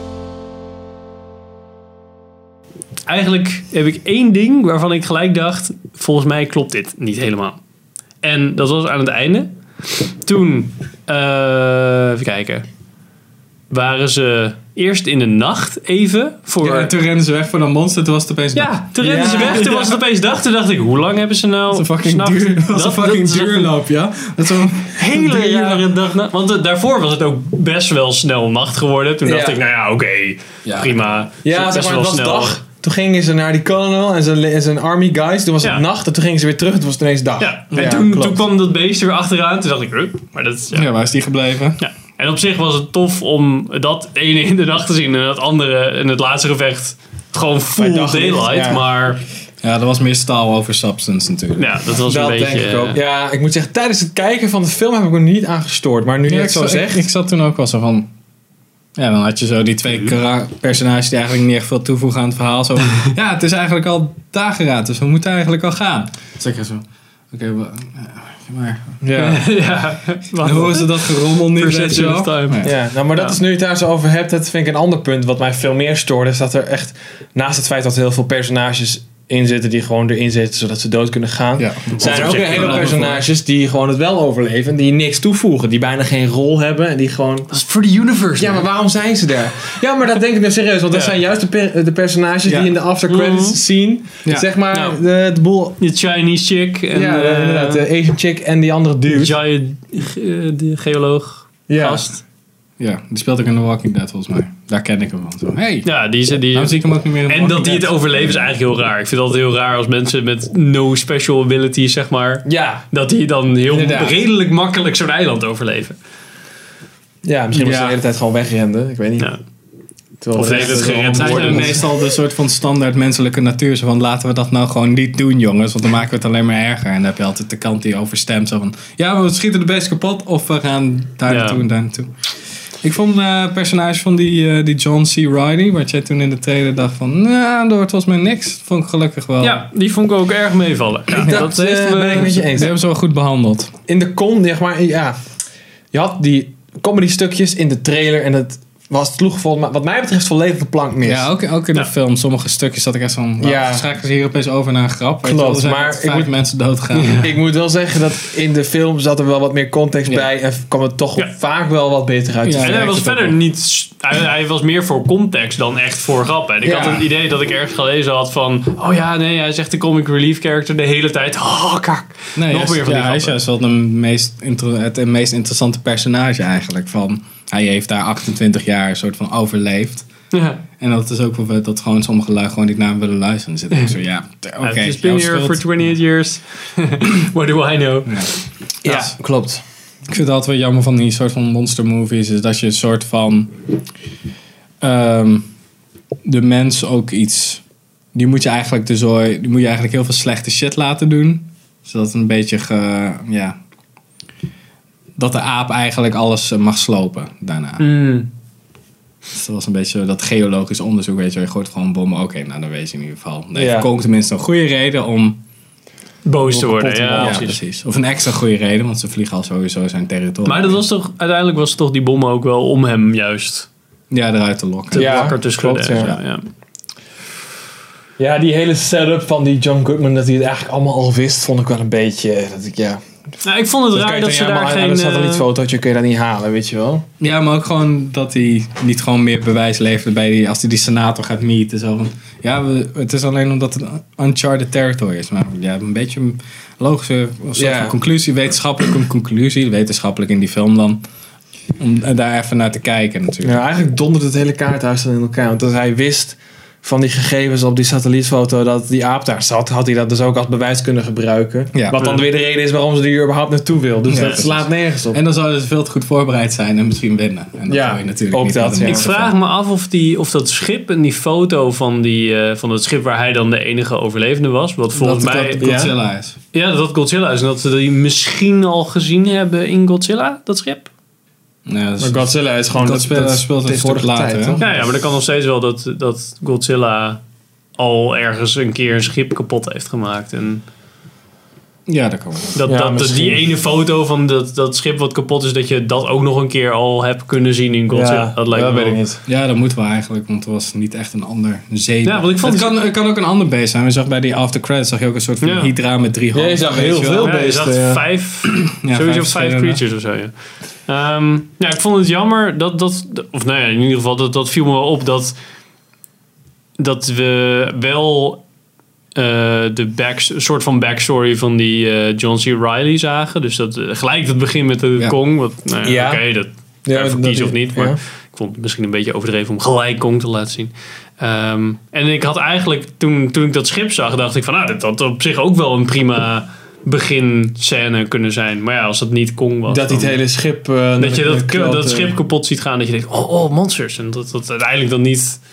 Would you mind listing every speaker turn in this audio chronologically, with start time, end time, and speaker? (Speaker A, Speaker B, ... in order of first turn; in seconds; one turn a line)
Speaker A: 3.1-7.6
Speaker A: 8.2-12.7
Speaker A: 13.7-16.9
Speaker B: 16.6-20.0
Speaker A: 18.5-23.7
Speaker C: 19.0-19.7
Speaker B: 21.7-25.8
Speaker A: 24.9-32.6
Speaker C: 29.2-29.6
Speaker B: 30.6-31.2
Speaker C: 31.4-38.5
Speaker A: 37.4-40.9
Speaker B: 40.7-41.8
Speaker A: 41.8-49.2
Speaker C: 47.7-48.8
Speaker B: 49.6-51.8
Speaker A: 51.6-53.0
Speaker C: 52.0-57.0
Speaker B: 56.3-58.1
Speaker B: 59.0-69.0
Speaker C: 69.0-69.4
Speaker A: 69.1-73.4
Speaker B: 70.4-72.7
Speaker C: 72.6-87.5
Speaker B: 81.6-83.2
Speaker A: 81.9-83.0
Speaker A: 87.5-88.7
Speaker C: 88.3-95.8
Speaker B: 92.5-92.7
Speaker A: 93.1-93.6
Speaker A: 94.7-95.0
Speaker A: 95.8-97.8
Speaker C: 96.9-99.3
Speaker A: 99.1-102.2
Speaker C: 101.7-102.0
Speaker B: 102.8-105.9
Speaker A: 105.8-116.0
Speaker B: 106.5-108.5
Speaker C: 112.4-112.8
Speaker C: 113.7-114.2
Speaker C: 117.2-119.3
Speaker B: 117.5-118.0
Speaker C: 120.2-121.9
Speaker A: 120.3-121.8
Speaker B: 120.5-132.1
Speaker A: 131.3-131.6
Speaker B: 132.8-139.6
Speaker A: 139.4-142.5
Speaker C: 141.1-142.7
Speaker B: 141.2-141.5
Speaker B: 142.0-143.7
Speaker C: 143.9-145.2
Speaker C: 145.9-151.3
Speaker B: 151.0-157.3
Speaker C: 153.4-153.8
Speaker C: 155.2-156.3
Speaker A: 156.9-157.3
Speaker C: 157.2-162.9
Speaker B: 162.4-163.3
Speaker A: 162.6-173.4
Speaker C: 166.6-167.1
Speaker B: 172.3-180.1
Speaker A: 180.3-180.6
Speaker B: 180.8-185.6
Speaker A: 184.6-188.4
Speaker B: 188.1-188.3
Speaker C: 188.8-189.6
Speaker B: 190.1-193.6
Speaker B: 194.8-195.5
Speaker B: 196.2-197.6
Speaker B: 198.1-203.6
Speaker B: 205.2-207.9
Speaker A: 207.8-208.3
Speaker B: 209.3-215.4
Speaker C: 213.5-213.9
Speaker A: 216.2-217.6
Speaker C: 216.5-217.4
Speaker B: 217.2-220.8
Speaker A: 220.4-223.7
Speaker B: 224.1-225.4
Speaker A: 224.9-226.4
Speaker C: 224.9-226.2
Speaker C: 228.2-233.0
Speaker A: 233.4-235.4
Speaker C: 233.9-237.1
Speaker B: 237.2-251.0
Speaker C: 247.6-247.9
Speaker B: 251.8-253.6
Speaker C: 253.4-265.2
Speaker B: 261.7-262.0
Speaker A: 261.9-262.2
Speaker B: 264.1-269.3
Speaker C: 267.7-269.1
Speaker A: 268.8-275.7
Speaker B: 274.9-276.4
Speaker C: 275.6-275.9
Speaker A: 276.5-280.9
Speaker B: 281.7-284.6
Speaker C: 282.0-284.9
Speaker A: 284.6-287.2
Speaker A: 287.8-290.6
Speaker B: 291.9-292.6
Speaker A: 292.6-299.0
Speaker C: 292.6-293.4
Speaker C: 297.9-299.2
Speaker B: 299.2-307.3
Speaker A: 302.0-302.8
Speaker A: 305.4-305.7
Speaker C: 306.3-308.0
Speaker A: 307.2-310.3
Speaker B: 308.4-309.8
Speaker A: 310.9-315.4
Speaker A: 316.8-318.4
Speaker A: 319.1-340.2
Speaker C: 325.8-326.2
Speaker C: 326.9-328.0
Speaker C: 339.7-342.2
Speaker A: 341.0-345.4